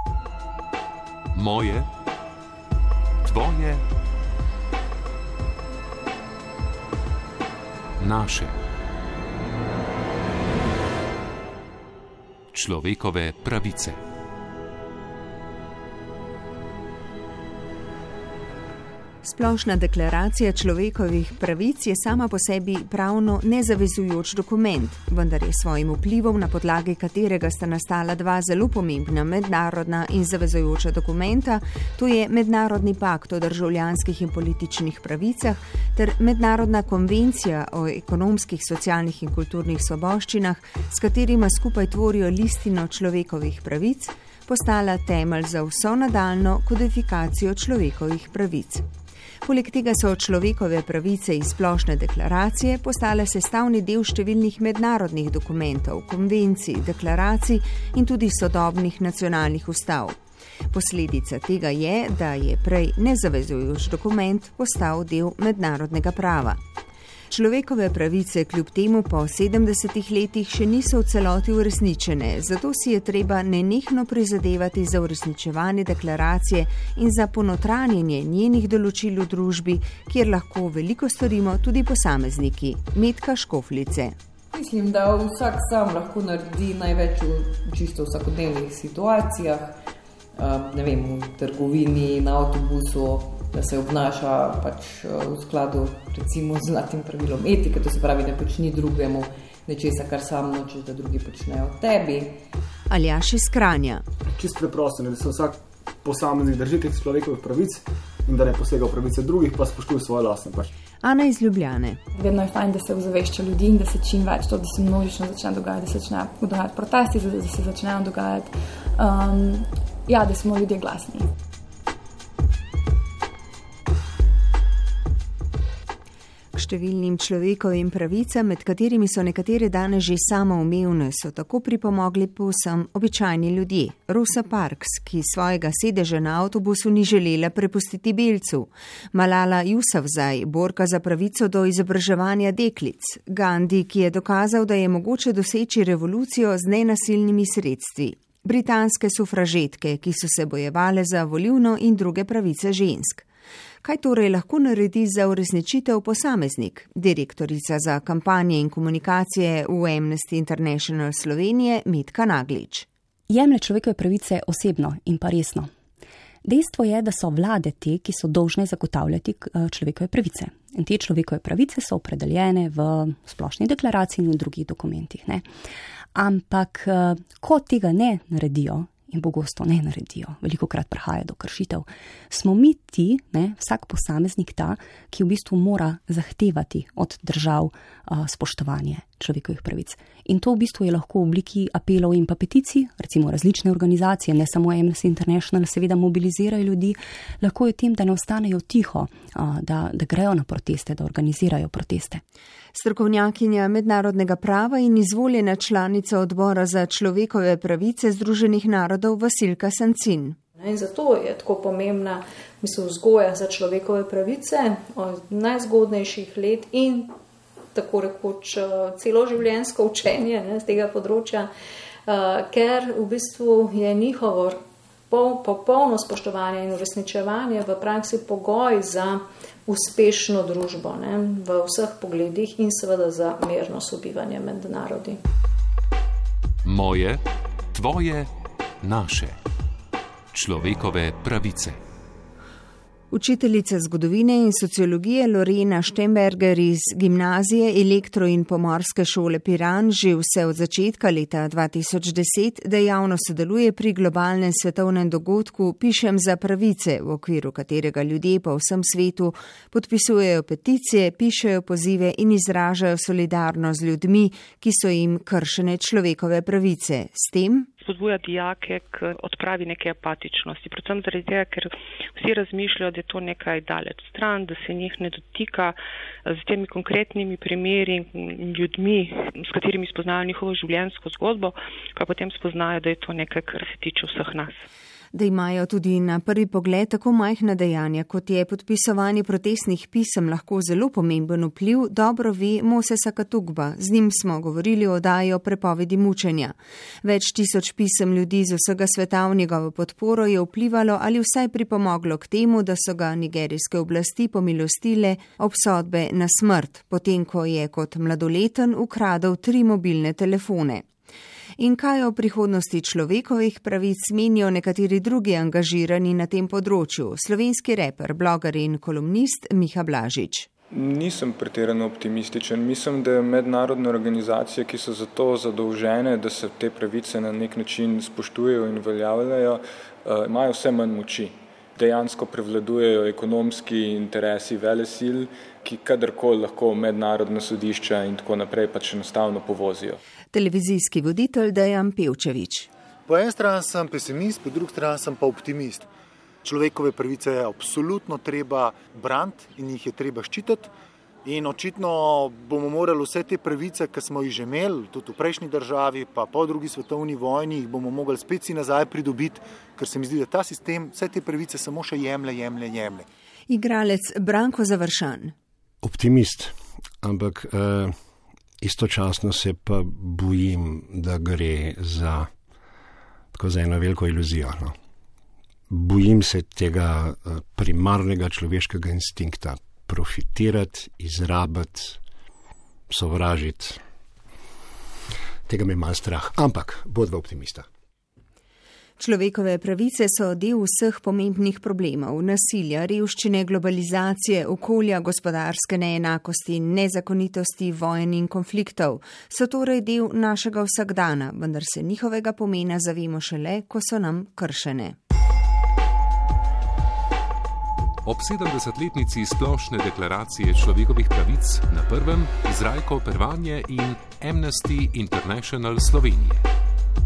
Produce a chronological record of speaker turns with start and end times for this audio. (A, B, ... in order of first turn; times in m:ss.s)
0:01.4-0:01.9 A
0:03.2-0:03.8 A
0:08.0-0:08.6 A
0:12.5-0:14.0 A
0:19.2-0:48.8 B
0:49.4-1:00.2 B
1:00.7-1:06.6 B
1:07.3-1:24.2 B
1:24.5-1:29.8 C
1:30.4-1:42.4 C
1:42.9-1:44.0 B
1:44.4-1:50.7 D
1:51.0-1:52.0 B
1:52.1-2:01.3 E
2:06.5-2:33.2 B
2:33.8-2:42.9 B
2:43.3-2:45.7 F
2:46.4-2:55.5 F
2:56.1-3:22.2 F
3:22.8-3:30.4 B
3:30.6-3:37.1 G
3:37.7-3:41.5 G
3:42.1-3:44.6 G
3:45.1-3:55.2 G
3:56.6-3:57.2 A
3:57.7-3:58.3 A
3:58.8-3:59.4 A
4:00.3-4:01.8 A
4:03.1-4:27.7 B
4:27.8-4:44.6 H
4:45.1-5:10.8 B
5:11.6-5:20.5 B
5:20.7-5:40.0 I
5:40.3-5:42.7 B
5:43.1-5:45.9 J
5:46.4-5:50.7 J
5:51.2-6:03.1 J
6:03.5-6:05.3 B
6:05.8-6:08.0 K
6:08.6-6:12.3 K
6:13.3-6:14.8 K
6:15.7-6:22.0 K
6:22.9-6:23.8 K
6:25.5-6:27.7 K
6:29.0-6:45.0 B
6:48.0-6:56.4 A